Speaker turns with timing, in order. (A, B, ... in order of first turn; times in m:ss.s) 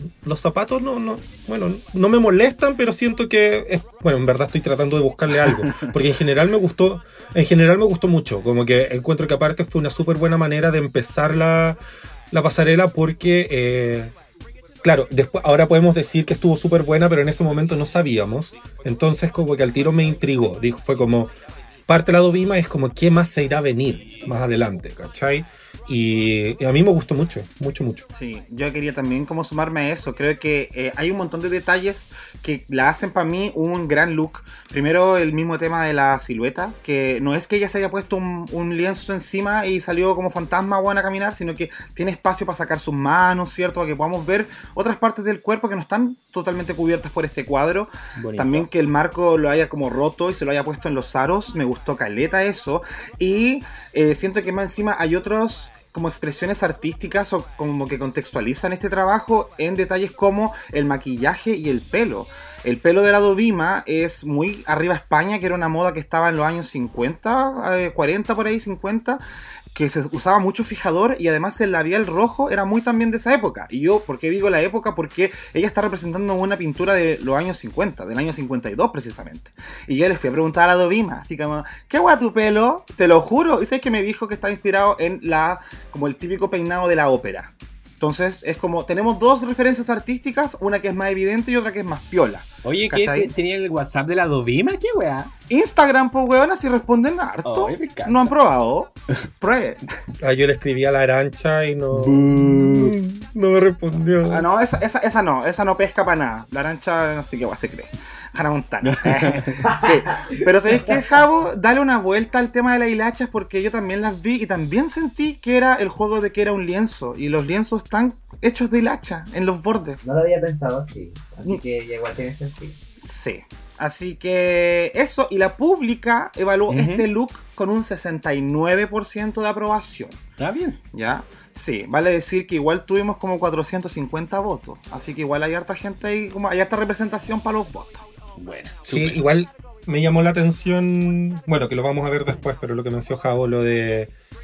0:00.2-0:11.8 A
0:05.4-0:05.9 B
0:12.3-0:14.1 A
0:14.8-0:21.3 A
0:21.9-0:28.1 A
0:28.1-1:09.2 B
0:48.2-0:48.7 C
1:09.7-1:33.3 B
1:32.6-1:35.3 C
1:35.5-1:39.8 B
1:37.4-1:38.3 C
1:40.2-1:44.5 A
1:41.9-1:43.0 C
1:44.2-2:00.0 B
1:48.8-1:49.7 C
2:00.0-2:02.8 D
2:03.0-2:10.2 B
2:06.7-2:07.1 C
2:10.4-2:10.8 C
2:10.9-2:18.1 B
2:18.4-2:19.2 C
2:18.9-2:24.1 A